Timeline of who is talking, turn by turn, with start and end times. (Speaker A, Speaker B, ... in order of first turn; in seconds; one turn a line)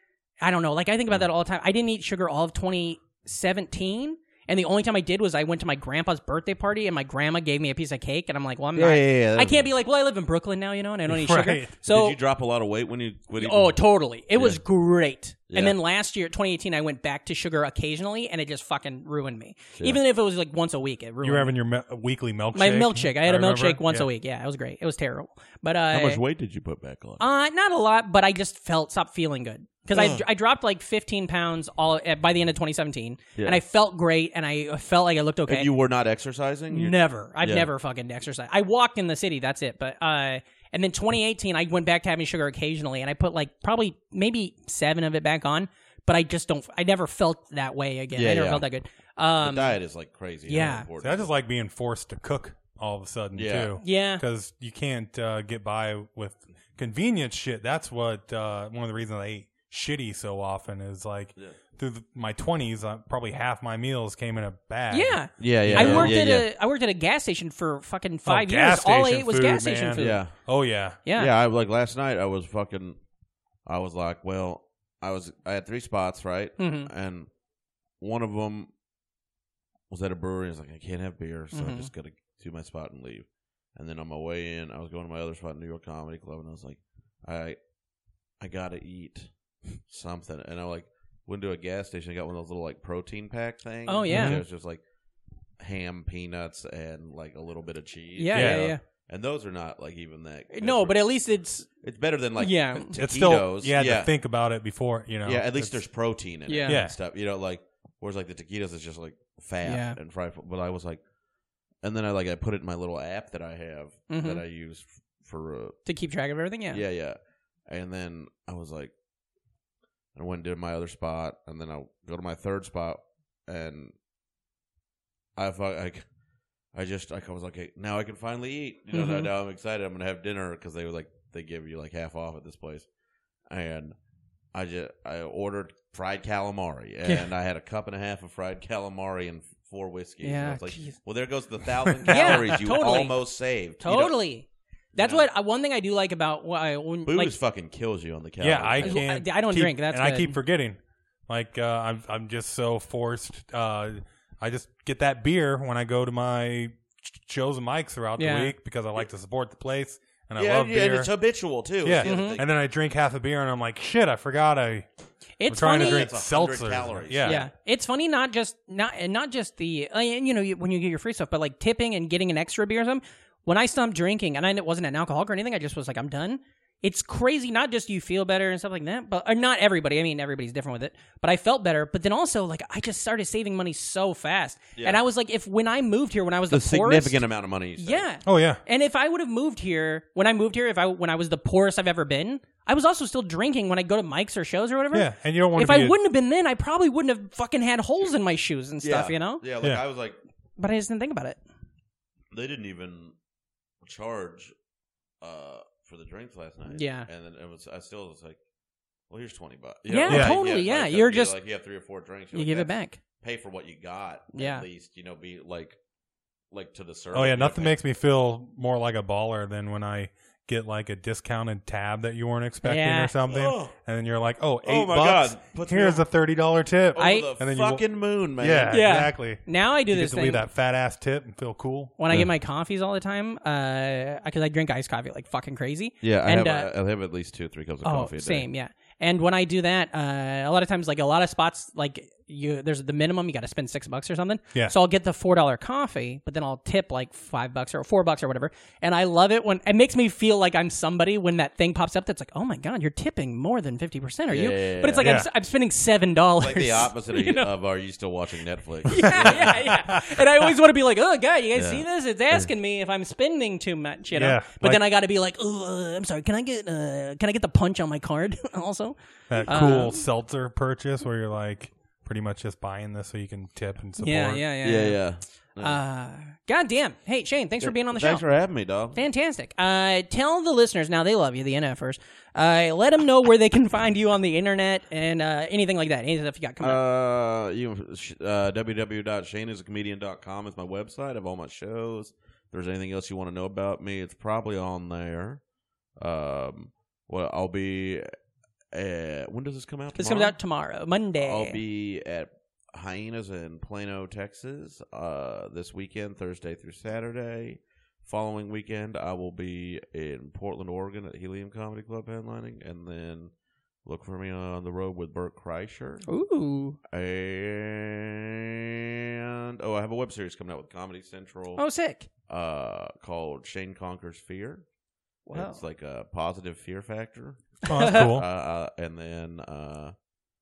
Speaker A: 0.4-12.2
Speaker B: 8.8-9.7
Speaker C: 11.1-11.7
Speaker B: 11.9-13.8
Speaker A: 13.4-21.5
Speaker B: 14.3-14.6
Speaker B: 15.5-15.8
Speaker C: 21.2-24.1
Speaker A: 22.6-26.2
Speaker B: 25.9-27.2
Speaker A: 27.2-35.7
Speaker B: 29.9-30.2
Speaker B: 35.5-37.7
Speaker A: 36.7-49.8
Speaker B: 48.1-48.6
Speaker B: 49.4-51.3
Speaker A: 50.5-50.9
Speaker C: 51.0-66.2
Speaker B: 53.4-53.8
Speaker A: 53.8-54.2
Speaker A: 64.9-70.2
Speaker B: 65.4-66.5
Speaker C: 68.2-71.0
Speaker B: 70.0-70.3
Speaker A: 71.1-71.3
Speaker B: 71.2-73.0
Speaker B: 73.7-77.3
Speaker A: 76.6-76.9
Speaker B: 78.0-78.7
Speaker B: 79.9-87.6
Speaker A: 81.5-81.9
Speaker B: 88.4-94.8
Speaker A: 93.9-94.4
Speaker C: 94.1-94.5
Speaker B: 95.6-101.0
Speaker A: 98.2-98.8
Speaker C: 98.3-98.7
Speaker A: 100.5-101.7
Speaker B: 101.8-104.1
Speaker A: 102.4-103.0
Speaker C: 103.0-105.8
Speaker B: 105.2-111.0
Speaker A: 106.5-106.8
Speaker C: 106.7-107.0
Speaker A: 109.6-110.0
Speaker B: 111.8-115.8
Speaker A: 114.1-114.4
Speaker A: 115.9-116.8
Speaker B: 116.7-118.9
Speaker B: 120.2-123.9
Speaker B: 125.4-126.0
Speaker B: 126.7-132.9
Speaker A: 128.9-129.3
Speaker B: 133.5-133.9
Speaker B: 134.5-144.2
Speaker A: 140.2-141.0
Speaker C: 142.1-142.4
Speaker A: 142.1-143.2
Speaker A: 143.8-147.3
Speaker B: 144.9-145.3
Speaker B: 147.1-149.0
Speaker C: 148.4-161.1
Speaker A: 148.8-150.4
Speaker A: 158.2-158.6
Speaker B: 160.4-162.5
Speaker C: 161.8-164.9
Speaker A: 162.0-162.4
Speaker A: 165.4-166.1
Speaker C: 165.5-167.4
Speaker B: 165.7-167.5
Speaker A: 167.2-187.2
Speaker B: 186.5-188.1
Speaker A: 187.8-199.4
Speaker C: 188.2-188.6
Speaker C: 194.9-196.0
Speaker B: 198.8-200.2
Speaker A: 200.6-201.4
Speaker B: 202.3-203.1
Speaker B: 203.8-204.5
Speaker B: 205.2-208.4
Speaker A: 206.7-207.1
Speaker B: 209.1-215.8
Speaker A: 209.9-211.3
Speaker C: 210.1-210.4
Speaker A: 212.3-213.0
Speaker A: 214.3-214.7
Speaker B: 216.5-217.8
Speaker C: 217.1-227.8
Speaker A: 222.6-223.1
Speaker B: 223.3-223.8
Speaker B: 224.6-226.1
Speaker B: 226.9-228.9
Speaker A: 227.0-227.3
Speaker C: 228.4-231.9
Speaker A: 228.7-230.4
Speaker A: 232.0-236.7
Speaker B: 236.0-238.5
Speaker A: 237.8-257.5
Speaker B: 254.3-255.2
Speaker C: 255.0-255.3
Speaker B: 256.4-259.6
Speaker A: 258.9-268.9
Speaker C: 259.3-260.2
Speaker B: 261.6-262.5
Speaker C: 264.1-264.8
Speaker C: 269.3-274.4
Speaker B: 269.4-269.8
Speaker A: 269.5-270.0
Speaker A: 274.0-275.0
Speaker B: 274.6-275.8
Speaker A: 275.6-278.2
Speaker B: 277.6-279.0
Speaker A: 278.9-286.8
Speaker B: 286.6-295.4
Speaker B: 296.0-298.1
Speaker B: 298.7-300.4
Speaker A: 300.0-301.6
Speaker B: 301.2-313.3
Speaker B: 313.9-316.1
Speaker A: 316.1-316.8
Speaker B: 316.9-321.6
Speaker A: 321.6-322.1
Speaker B: 322.3-324.6
Speaker A: 325.3-325.6
Speaker B: 325.3-329.9
Speaker C: 327.7-328.3
Speaker A: 327.7-328.1